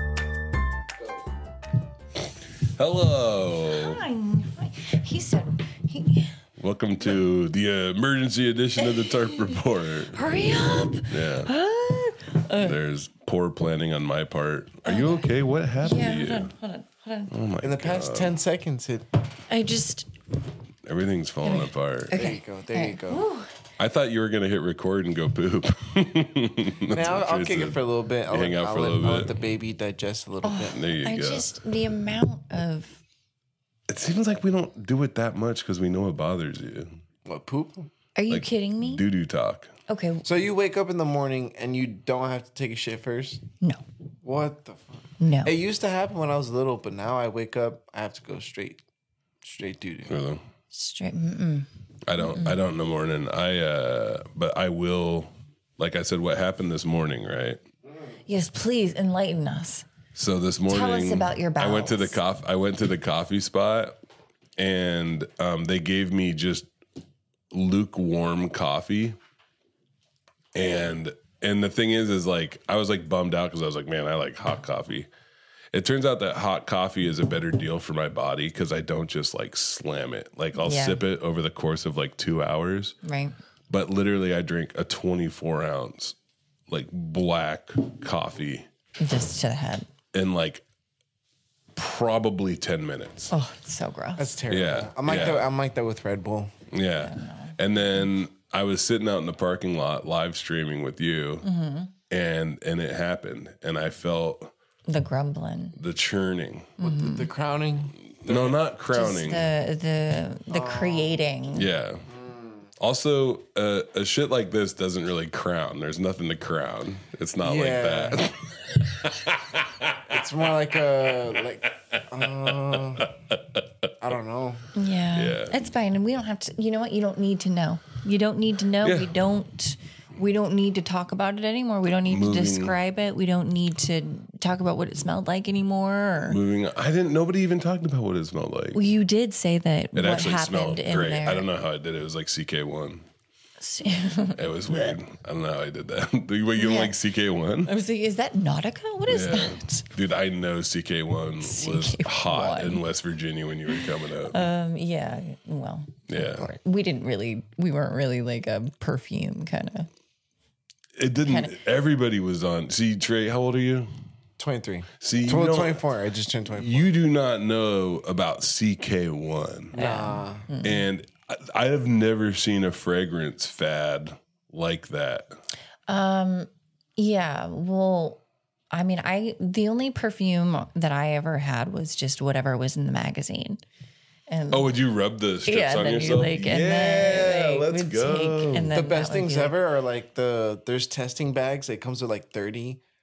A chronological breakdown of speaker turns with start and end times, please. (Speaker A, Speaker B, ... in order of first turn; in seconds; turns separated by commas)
Speaker A: 2.6-4.0, Speaker B: 3.7-6.4, Speaker A: 6.6-11.5, Speaker B: 8.8-12.8, Speaker A: 12.5-16.5, Speaker B: 14.8-17.3, Speaker A: 17.3-18.4, Speaker C: 17.6-19.1, Speaker B: 19.5-20.1, Speaker A: 20.8-22.3, Speaker B: 21.4-23.5, Speaker C: 22.1-23.3, Speaker A: 23.8-29.4, Speaker C: 26.9-30.8, Speaker B: 30.4-33.0, Speaker A: 30.7-31.5, Speaker A: 33.9-37.0, Speaker C: 37.2-37.9, Speaker B: 38.1-39.0, Speaker A: 38.3-39.8, Speaker B: 39.9-40.3, Speaker C: 40.2-43.4, Speaker C: 44.2-48.8, Speaker B: 45.2-45.5, Speaker C: 49.4-50.1, Speaker A: 50.1-50.4, Speaker B: 50.7-52.6, Speaker A: 52.1-57.6, Speaker B: 58.3-59.9, Speaker A: 60.1-64.0, Speaker B: 60.7-62.2, Speaker A: 64.6-66.7, Speaker A: 67.5-69.2, Speaker A: 70.5-75.1, Speaker A: 75.7-83.0, Speaker B: 80.6-81.0, Speaker B: 83.0-83.3, Speaker A: 83.7-86.2, Speaker A: 86.7-88.7, Speaker B: 89.0-89.9, Speaker A: 90.1-90.7, Speaker A: 91.8-93.3, Speaker B: 93.3-94.3, Speaker C: 94.2-96.5, Speaker A: 94.5-95.5, Speaker A: 96.7-101.5, Speaker B: 97.0-97.9, Speaker B: 101.4-101.9, Speaker A: 102.1-104.5, Speaker B: 104.9-105.8, Speaker A: 105.8-106.7, Speaker B: 106.8-107.3, Speaker C: 106.8-108.6, Speaker A: 108.2-109.5, Speaker B: 108.9-111.7, Speaker C: 110.5-111.2, Speaker A: 111.5-112.1, Speaker C: 112.1-112.7, Speaker A: 112.8-123.9, Speaker C: 117.4-118.3, Speaker C: 120.1-123.1, Speaker C: 124.0-124.7, Speaker B: 124.7-136.4, Speaker A: 125.1-125.6, Speaker A: 128.8-129.1, Speaker A: 132.1-132.8, Speaker A: 136.2-138.8, Speaker B: 138.7-141.5, Speaker A: 139.9-143.1, Speaker B: 143.6-144.9, Speaker A: 144.3-147.7, Speaker B: 146.6-146.9, Speaker B: 147.7-149.9, Speaker A: 149.1-154.5, Speaker B: 151.4-152.8, Speaker B: 153.8-159.9, Speaker A: 156.1-156.5, Speaker A: 160.9-163.9, Speaker B: 161.2-161.6, Speaker C: 164.4-166.9, Speaker A: 165.0-165.9, Speaker A: 166.5-169.8, Speaker C: 169.7-170.5, Speaker B: 169.8-170.9, Speaker A: 170.6-175.3, Speaker B: 175.9-183.6, Speaker B: 184.3-184.7, Speaker A: 184.5-188.8, Speaker B: 185.4-189.6, Speaker C: 188.7-192.8